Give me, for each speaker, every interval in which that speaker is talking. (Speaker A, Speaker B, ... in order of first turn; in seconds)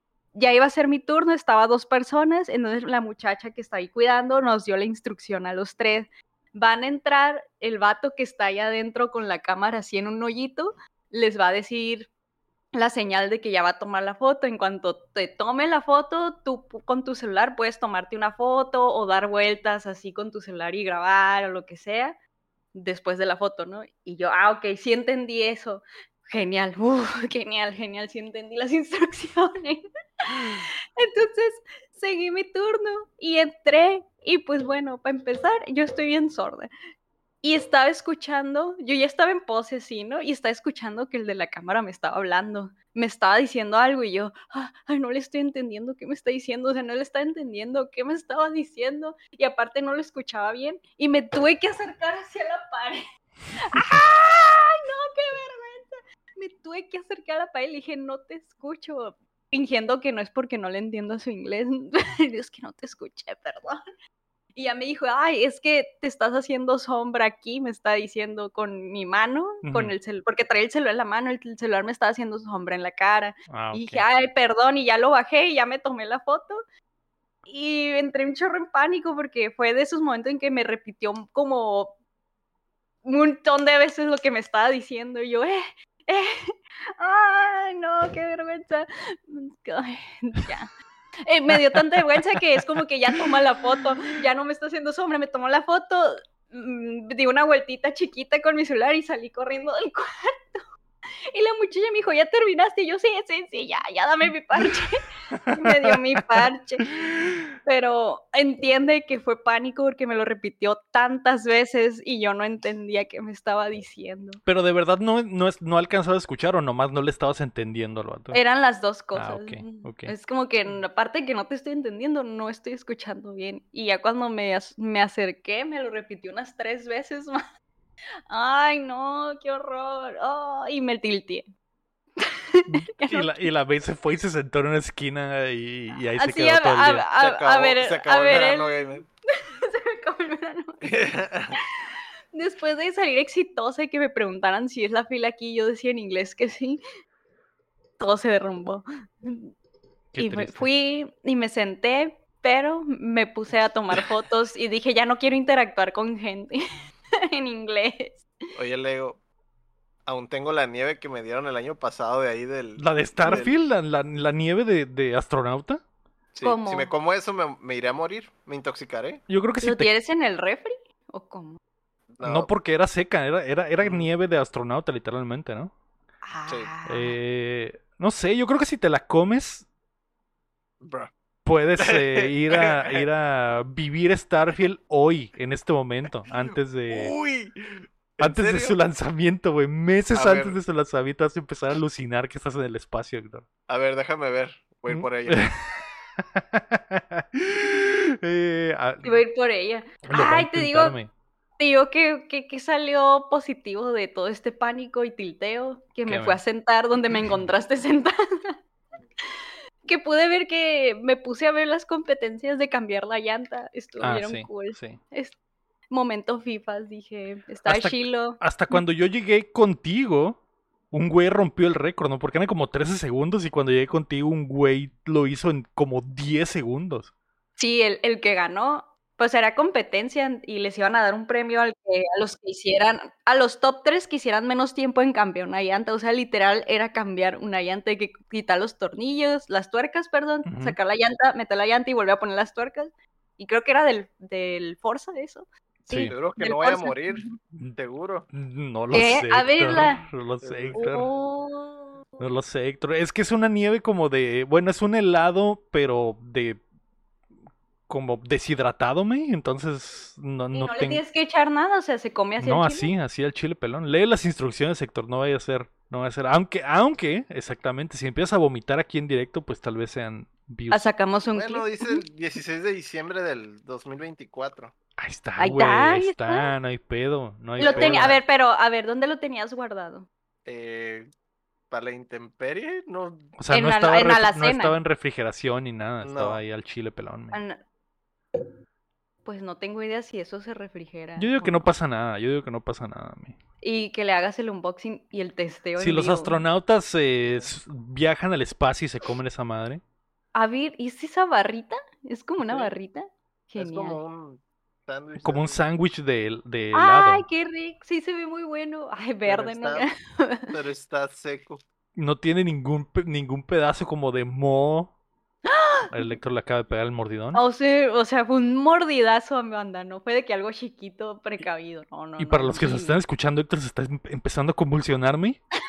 Speaker A: 0.3-12.1, 12.7-22.1, 22.7-36.7, 37.4-53.0, 53.6-63.8, 64.5-76.6, 77.5-82.0, 83.0-90.7, 91.3-100.6, 101.3-114.4, 118.3-127.4, 128.3-131.5, 132.2-133.5, 136.2-141.6, 142.3-146.8, 148.0-149.5, 150.2-156.6, 157.3-158.3, 166.4-166.9, 169.6-171.6, 176.2-177.2, 199.0-201.0, 201.6-208.5, 209.8-215.3, 215.9-218.8, 227.6-247.3, 248.9-250.0, 250.8-252.2, 260.5-262.9, 270.7-272.0, 275.4-276.5, 277.6-280.1, 283.5-284.8, 287.3-287.6, 289.2-291.7, 293.6-296.4, 300.3-304.0, 306.7-310.5, 315.5-316.1, 317.3-323.0
Speaker B: 69.6-69.9, 73.5-74.1, 91.5-91.8, 105.3-106.4, 114.5-118.4, 119.1-120.1, 132.7-137.0, 150.1-150.7, 162.8-165.8, 169.3-169.9, 172.2-175.7, 176.9-179.7, 181.4-187.1, 188.2-193.4, 194.9-199.2, 200.0-201.1, 206.1-206.4, 214.0-215.0, 217.7-220.4, 220.9-227.1, 240.4-240.8, 248.3-251.1, 252.2-256.6, 257.9-261.0, 262.4-270.8, 275.0-278.2, 283.4-287.4, 291.2-293.4, 295.8-299.8, 305.2-307.2, 311.9-314.9, 315.9-317.4, 322.2-325.4
Speaker C: 137.2-139.0, 140.8-141.6, 158.6-159.2, 160.1-163.6, 166.3-169.2, 172.1-172.5, 173.8-174.1, 180.8-181.1, 181.8-183.0, 186.3-188.8, 190.1-190.6, 193.7-195.5, 246.1-248.3, 250.4-250.8, 271.3-274.7, 277.6-278.2, 280.4-281.1, 281.7-283.3, 286.0-286.4, 302.4-302.7, 303.6-305.6, 309.2-309.9, 310.5-311.6